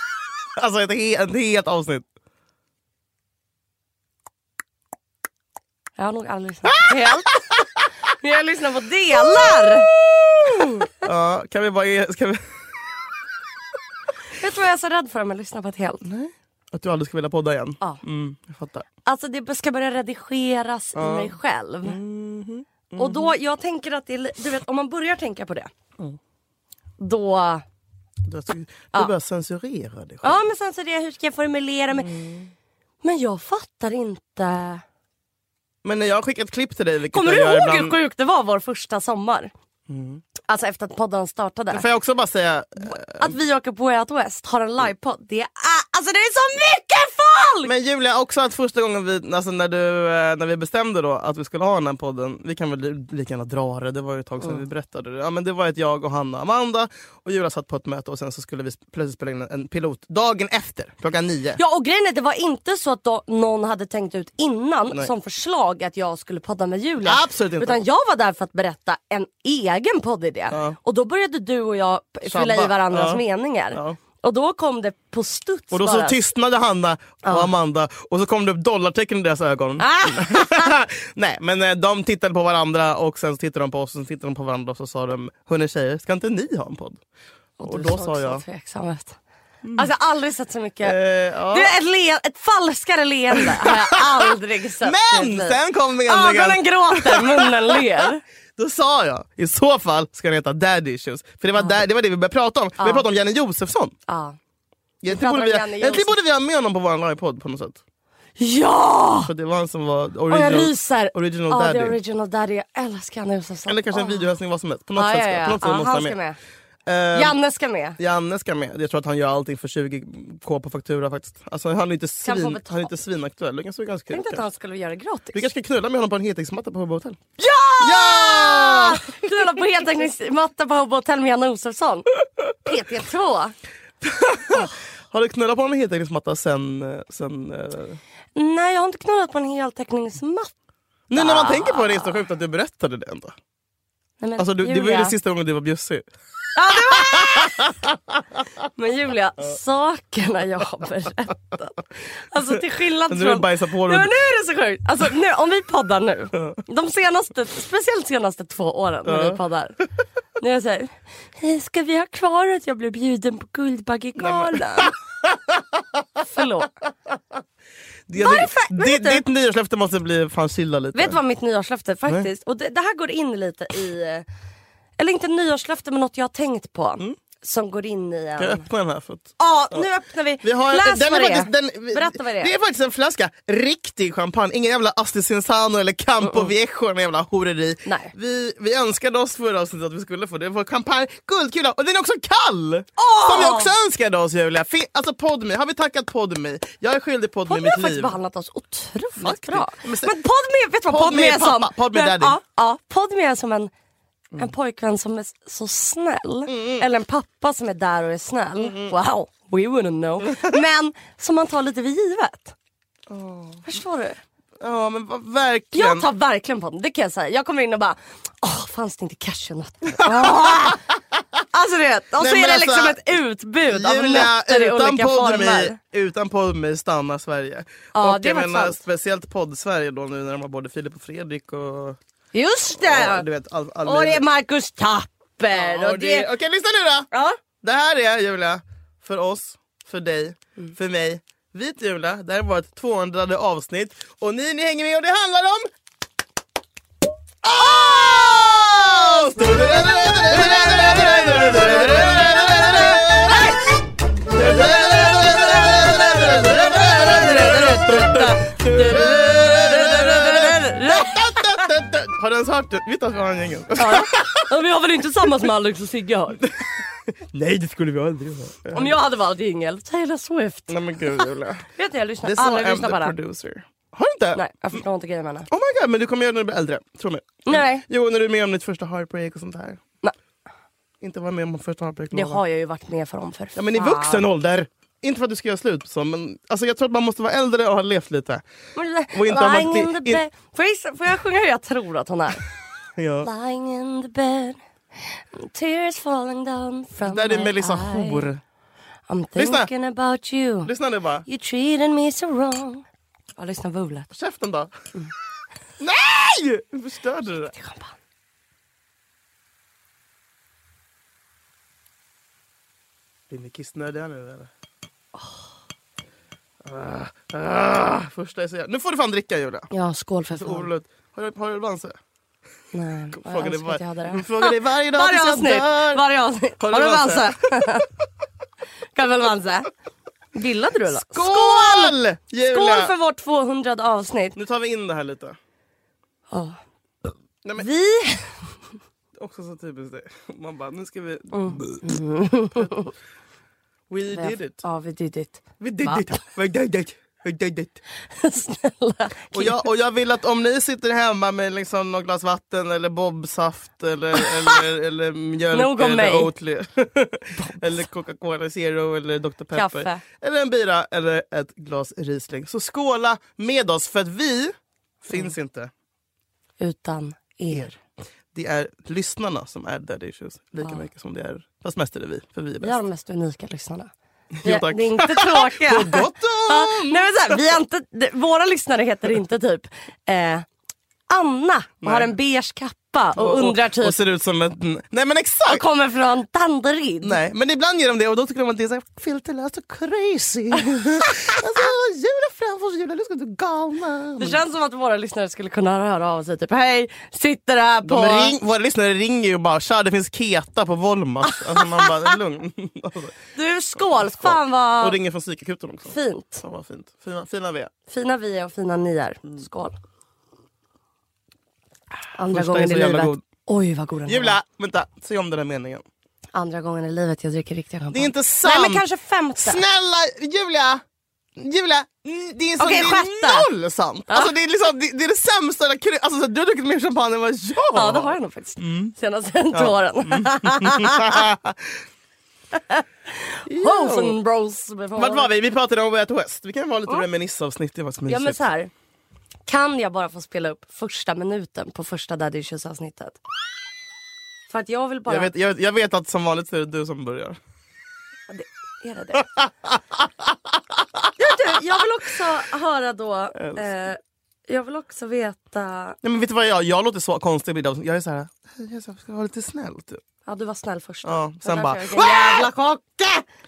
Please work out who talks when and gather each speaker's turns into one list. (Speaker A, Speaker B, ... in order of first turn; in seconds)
Speaker A: 0.6-2.1, 6.8-7.1, 9.2-13.1, 16.0-18.9, 20.9-23.3, 28.2-30.4, 31.9-32.5, 35.8-38.0, 39.9-40.2, 41.7-43.4, 47.6-61.6, 67.0-67.8, 70.5-70.8, 72.3-74.0, 75.7-87.0, 87.6-88.4, 89.6-89.9, 90.8-91.7, 93.4-103.9, 105.0-107.8, 109.2-112.0, 113.7-116.2, 116.9-117.4, 118.0-124.5, 125.3-127.3, 127.8-129.1, 134.0-138.0, 141.1-143.3, 144.4-146.1, 146.8-148.2, 152.4-154.1, 159.1-159.8, 164.2-165.8, 168.1-171.2, 178.4-179.9, 180.4-198.2, 199.2-200.2, 200.9-202.4, 206.5-206.9, 208.6-209.0, 210.3-210.6, 213.1-213.8, 214.6-216.1, 220.0-220.8, 222.2-223.0, 223.6-232.0, 232.7-234.2, 235.5-237.1, 237.6-245.7, 247.4-253.5, 254.3-264.5, 266.4-269.0, 270.7-271.7, 272.2-274.8, 275.5-279.8, 281.0-282.4, 283.6-288.4, 289.1-290.2, 293.0-293.3, 297.0-298.4, 299.4-299.7, 300.6-301.2, 304.1-304.7, 305.8-307.6, 313.3-314.5, 316.6-319.7, 320.3-322.0, 323.1-326.1, 326.6-327.8, 330.9-332.9, 334.4-335.4, 339.1-341.9, 343.9-344.6, 345.6-347.8, 349.3-365.7, 368.3-372.8, 374.4-377.6, 381.8-382.1, 383.2-385.6, 387.0-394.4, 397.8-407.7, 412.3-413.2, 414.1-415.9, 417.9-418.9, 419.4-420.8, 421.4-428.9, 429.5-431.8, 433.5-434.2, 435.0-438.4, 445.1-447.4, 449.4-451.1, 453.4-453.7, 456.0-460.0, 461.0-462.5
Speaker B: 6.0-7.4, 8.1-9.9, 10.5-10.9, 14.3-16.0, 19.1-22.0, 23.0-25.7, 27.0-27.6, 30.2-32.1, 33.0-34.8, 37.1-39.5, 40.4-41.9, 42.8-47.7, 61.6-76.2, 77.2-77.5, 79.8-80.8, 87.6-89.2, 89.8-91.0, 91.5-98.2, 101.5-101.8, 102.8-103.1, 104.1-104.4, 105.1-106.2, 108.4-109.3, 110.3-114.2, 115.0-116.4, 117.1-118.0, 122.2-122.9, 124.1-125.5, 127.4-133.6, 138.3-140.5, 141.1-142.3, 144.2-145.2, 146.6-147.8, 148.6-159.8, 160.4-164.9, 166.2-166.8, 168.2-169.2, 170.9-174.2, 175.0-178.7, 179.4-182.6, 187.8-188.1, 193.0-193.7, 197.5-203.7, 204.4-212.6, 213.7-214.2, 215.7-220.8, 221.5-225.8, 227.9-228.8, 232.3-233.3, 233.8-236.3, 237.1-237.4, 255.9-261.6, 263.8-266.4, 268.7-271.1, 271.7-273.1, 274.3-275.5, 277.5-277.9, 282.1-284.3, 288.8-292.4, 293.2-298.3, 299.1-300.7, 301.2-302.9, 303.4-304.1, 307.6-307.9, 319.7-320.7, 322.7-327.9, 328.9-329.7, 330.3-331.9, 332.5-334.4, 336.3-336.6, 337.6-338.6, 341.3-342.9, 344.1-346.1, 348.1-349.6, 355.5-356.3, 357.4-357.7, 359.5-360.0, 366.6-367.8, 372.6-373.9, 374.4-380.5, 381.1-384.0, 385.4-387.2, 394.2-398.4, 401.5-402.1, 403.4-405.0, 405.9-406.4, 407.9-409.8, 412.1-414.4, 416.3-419.6, 422.6-423.5, 427.7-431.2, 432.5-435.4, 438.1-438.7, 439.5-443.2, 444.5-445.3, 448.3-449.3, 451.2-456.0, 460.3-463.2